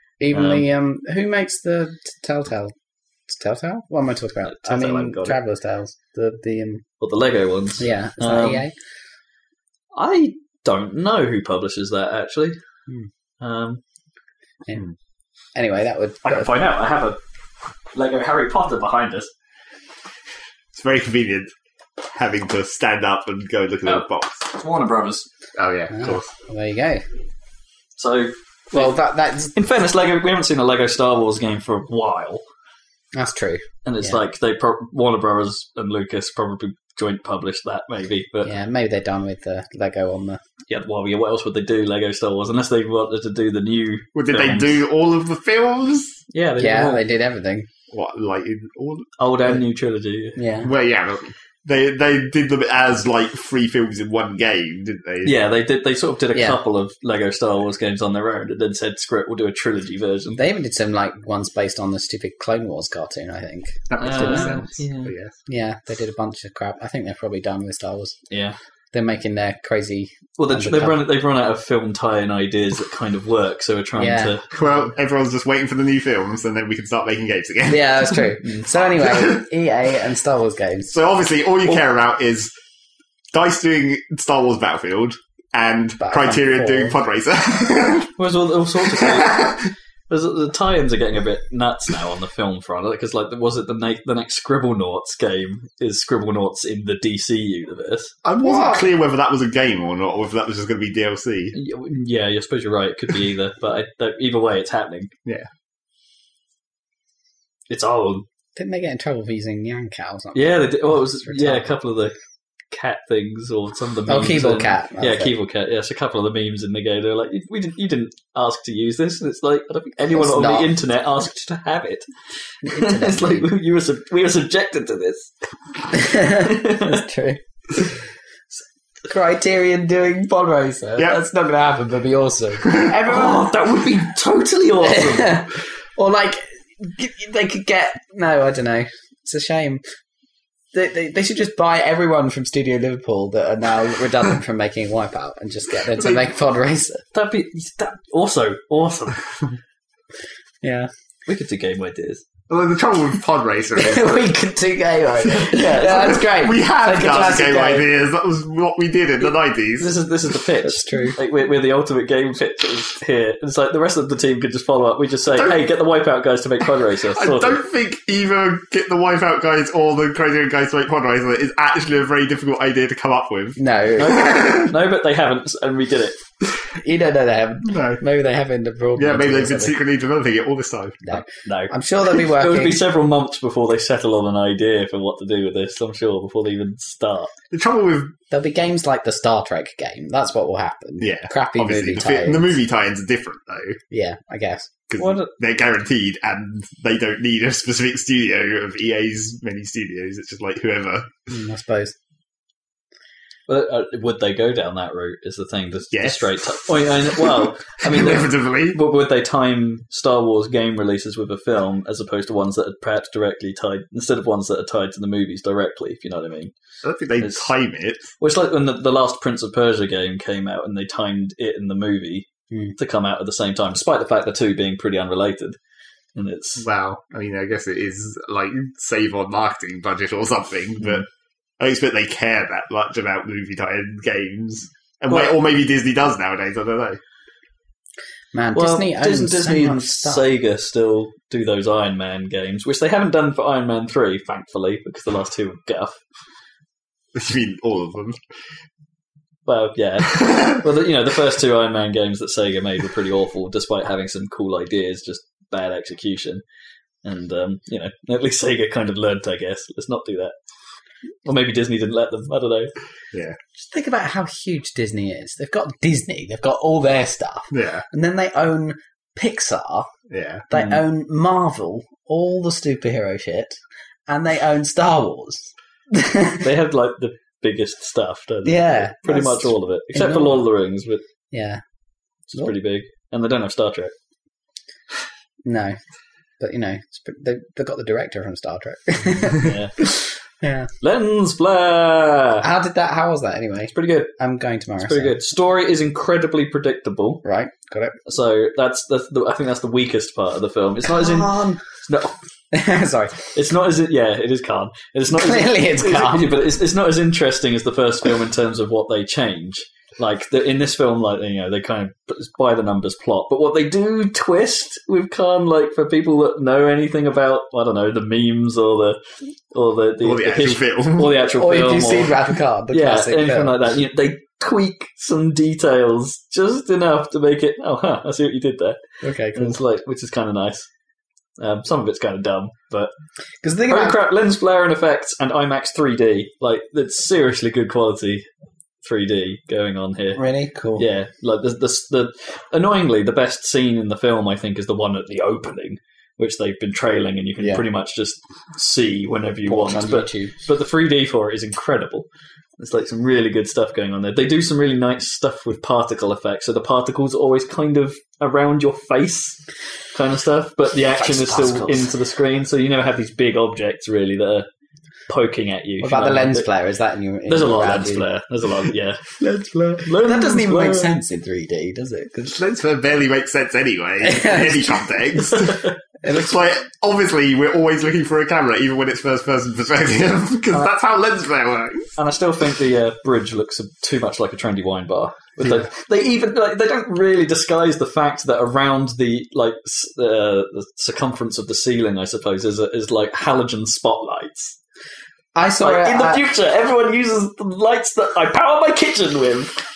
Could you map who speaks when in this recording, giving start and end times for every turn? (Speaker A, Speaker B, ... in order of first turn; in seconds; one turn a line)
Speaker A: 0.2-2.7
Speaker B: 0.3-0.6
Speaker A: 3.3-6.8
Speaker B: 4.5-5.4
Speaker B: 7.0-8.6
Speaker A: 7.8-8.7
Speaker B: 9.9-12.6
Speaker B: 13.4-13.8
Speaker A: 15.6-16.5
Speaker B: 16.2-17.2
Speaker B: 17.9-19.3
Speaker C: 20.7-21.5
Speaker C: 22.1-24.5
Speaker B: 23.9-25.3
Speaker C: 25.6-26.3
Speaker A: 25.9-27.0
Speaker B: 27.9-29.0
Speaker A: 28.7-29.5
Speaker B: 29.5-32.4
Speaker A: 33.1-34.2
Speaker B: 33.9-38.5
Speaker A: 38.4-40.4
Speaker B: 40.7-44.8
Speaker C: 44.1-46.2
Speaker B: 46.3-47.0
Speaker A: 46.6-47.7
Speaker C: 47.9-49.1
Speaker B: 49.2-50.4
Speaker A: 50.4-50.7
Speaker C: 50.6-55.4
Speaker B: 55.2-60.4
Speaker A: 60.4-64.6
Speaker C: 63.9-65.3
Speaker B: 64.0-65.1
Speaker A: 65.5-68.2
Speaker B: 68.3-68.6
Speaker A: 68.9-71.0
Speaker B: 70.4-74.5
Speaker A: 74.0-74.3
Speaker C: 74.5-78.2
Speaker A: 77.7-81.0
Speaker C: 79.0-79.4
Speaker C: 80.9-82.5
Speaker C: 83.3-88.1
Speaker A: 86.0-87.0
Speaker B: 88.2-98.1
Speaker C: 88.8-89.7
Speaker C: 98.2-101.5
Speaker A: 98.4-98.9
Speaker B: 101.5-105.1
Speaker B: 107.7-108.2
Speaker A: 108.5-111.7
Speaker B: 110.3-112.1
Speaker B: 112.7-122.1
Speaker A: 114.1-115.3
Speaker A: 120.1-120.7
Speaker A: 122.6-123.5
Speaker B: 122.6-125.3
Speaker A: 125.9-127.4
Speaker B: 126.0-127.0
Speaker A: 129.1-133.5
Speaker B: 133.0-135.4
Speaker A: 134.8-139.8
Speaker A: 140.7-147.0
Speaker B: 147.1-149.2
Speaker A: 150.6-150.9
Speaker B: 151.2-152.2
Speaker C: 152.5-154.3
Speaker A: 153.8-157.9
Speaker B: 155.4-156.2
Speaker C: 155.6-159.9
Speaker B: 159.8-167.6
Speaker A: 160.6-161.2
Speaker C: 167.1-174.7
Speaker A: 173.6-174.3
Speaker B: 174.0-176.2
Speaker A: 176.8-179.8
Speaker C: 177.6-178.0
Speaker C: 178.9-181.1
Speaker A: 181.1-182.8
Speaker B: 181.2-187.3
Speaker C: 187.5-188.1
Speaker A: 188.3-192.6
Speaker C: 191.0-193.8
Speaker A: 193.9-194.7
Speaker C: 194.9-201.1
Speaker B: 195.0-195.3
Speaker A: 201.3-201.9
Speaker B: 203.5-216.5
Speaker C: 205.9-208.8
Speaker C: 216.8-218.1
Speaker B: 217.2-217.5
Speaker B: 218.2-225.6
Speaker B: 226.1-226.6
Speaker C: 226.6-231.0
Speaker C: 231.6-237.0
Speaker B: 235.1-235.3
Speaker A: 238.3-240.2
Speaker B: 238.5-246.0
Speaker C: 247.1-248.2
Speaker B: 249.4-256.4
Speaker B: 257.0-260.3
Speaker B: 261.2-262.7
Speaker C: 263.1-263.4
Speaker A: 263.6-269.9
Speaker C: 267.5-267.8
Speaker C: 270.1-270.4
Speaker A: 270.5-276.4
Speaker B: 270.5-270.8
Speaker B: 276.4-281.0
Speaker A: 278.4-280.4
Speaker A: 281.3-281.6
Speaker B: 282.3-283.9
Speaker A: 285.4-285.8
Speaker A: 286.4-290.7
Speaker B: 289.3-289.7
Speaker B: 290.8-292.4
Speaker A: 292.4-295.1
Speaker B: 293.7-294.1
Speaker B: 294.8-297.2
Speaker A: 297.2-297.9
Speaker B: 298.1-302.1
Speaker A: 300.9-301.6
Speaker A: 302.5-303.3
Speaker B: 303.3-319.0
Speaker A: 305.1-306.4
Speaker B: 319.5-330.7
Speaker C: 320.0-321.2
Speaker A: 321.3-323.5
Speaker A: 329.0-329.6
Speaker B: 331.4-332.9
Speaker A: 333.4-334.0
Speaker B: 333.7-338.2
Speaker B: 338.8-340.2
Speaker A: 340.1-340.9
Speaker B: 340.8-352.1
Speaker A: 347.4-347.6
Speaker A: 349.4-350.3
Speaker B: 352.6-359.4
Speaker B: 359.9-364.5
Speaker A: 360.9-361.9
Speaker B: 365.1-366.5
Speaker A: 365.8-368.1
Speaker B: 367.3-369.1
Speaker A: 369.2-372.4
Speaker B: 369.8-370.9
Speaker C: 372.3-381.9
Speaker A: 374.0-374.6
Speaker B: 382.0-394.6
Speaker A: 395.3-396.3
Speaker B: 395.6-399.5